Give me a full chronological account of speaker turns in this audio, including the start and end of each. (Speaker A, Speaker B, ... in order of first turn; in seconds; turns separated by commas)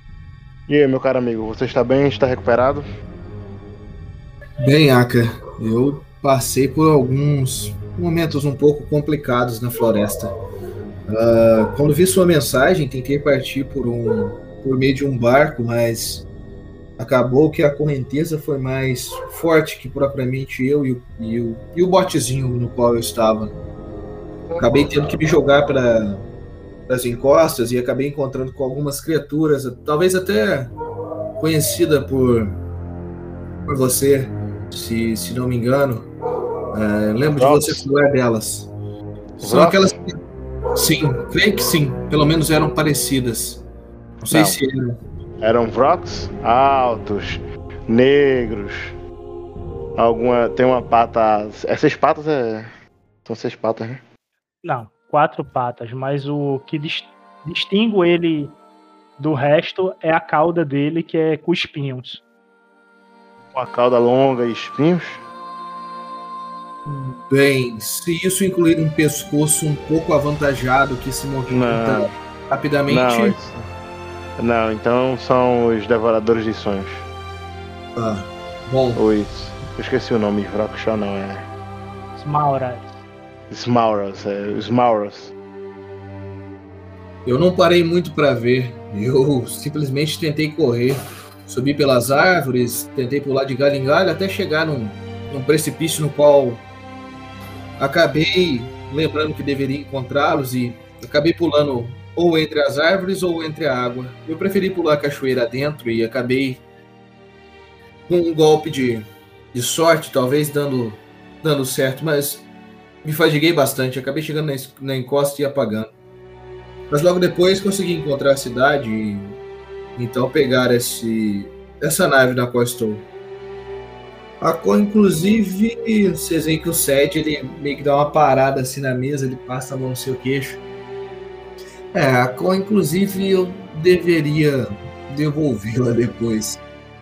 Speaker A: 0.7-2.8, Speaker B: 4.6-10.3, Speaker B: 11.1-16.2, Speaker B: 17.0-23.6, Speaker B: 24.6-26.2, Speaker B: 26.9-30.7, Speaker B: 31.4-32.6, Speaker B: 33.6-36.1, Speaker B: 36.7-38.7, Speaker A: 37.2-37.9, Speaker A: 39.4-39.9, Speaker B: 39.4-40.1, Speaker B: 40.7-43.6, Speaker B: 44.2-45.0, Speaker A: 44.3-44.6, Speaker A: 45.4-48.9, Speaker A: 50.0-52.7, Speaker A: 53.2-54.0, Speaker C: 54.6-58.5, Speaker C: 59.2-62.2, Speaker A: 63.5-65.2, Speaker B: 66.8-73.3, Speaker A: 71.5-72.1, Speaker A: 72.9-73.6, Speaker A: 74.4-77.0, Speaker B: 77.9-79.0, Speaker A: 79.0-81.5, Speaker C: 82.2-82.9, Speaker A: 83.5-85.3, Speaker B: 87.2-96.6, Speaker B: 97.8-106.6, Speaker B: 108.1-112.5, Speaker B: 113.0-115.9, Speaker B: 116.9-119.4, Speaker B: 120.0-123.1, Speaker B: 124.4-130.6, Speaker B: 131.9-136.6